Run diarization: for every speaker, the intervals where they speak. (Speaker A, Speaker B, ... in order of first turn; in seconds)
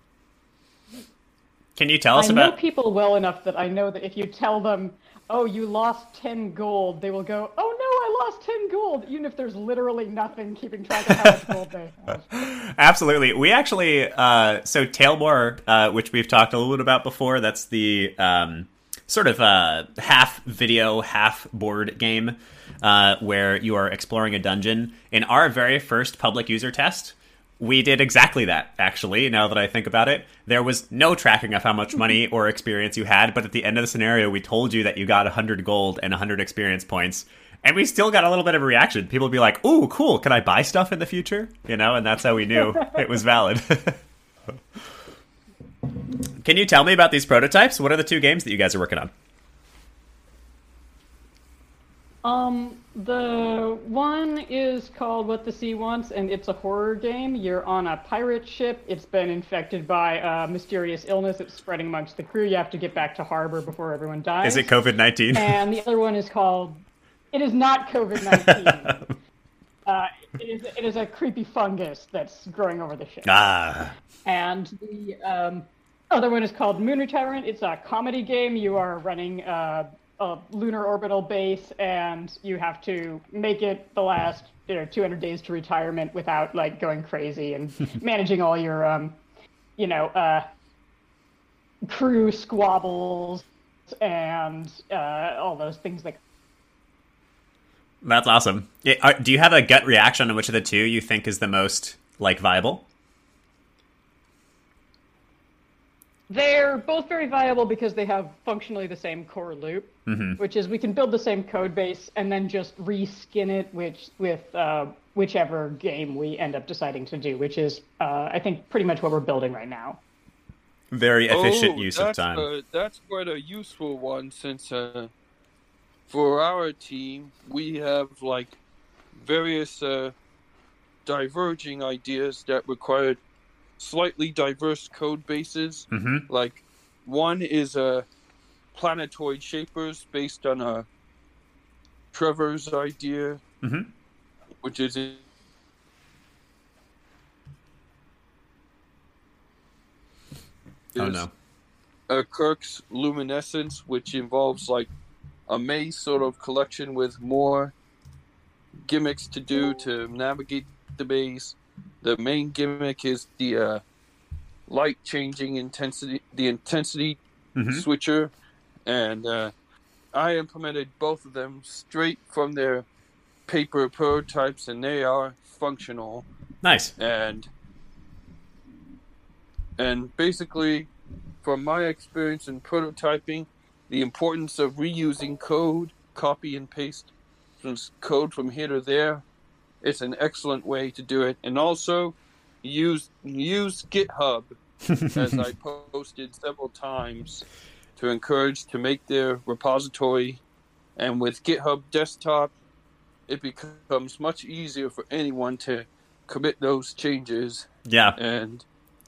Speaker A: 1.8-2.5, 11.1-11.4, 12.3-44.0, 46.4-49.1, 64.4-65.6, 68.3-69.1, 73.2-73.9, 98.0-102.8, 110.1-110.4, 120.9-122.5, 135.9-136.2, 143.6-143.9, 150.9-151.3, 167.6-167.8, 176.6-176.9, 194.9-195.4, 207.9-208.2
Speaker B: 2.1-12.2, 52.2-64.7, 65.3-69.0, 69.8-73.3, 74.2-89.2, 89.8-90.5, 91.8-96.2, 106.3-120.0
Speaker C: 121.3-125.1, 126.1-128.6, 129.2-130.1, 131.0-133.2, 133.8-138.1, 138.7-140.8, 142.1-143.4, 144.6-145.2, 150.9-151.3, 152.1-154.9, 155.5-157.7, 158.8-163.8, 164.7-167.2, 167.7-168.3, 168.8-169.5, 170.1-172.8, 173.5-176.2, 177.0-177.5, 179.8-180.9, 181.4-189.2, 189.8-194.6, 195.1-197.4, 197.9-200.4, 200.9-202.5, 203.3-208.6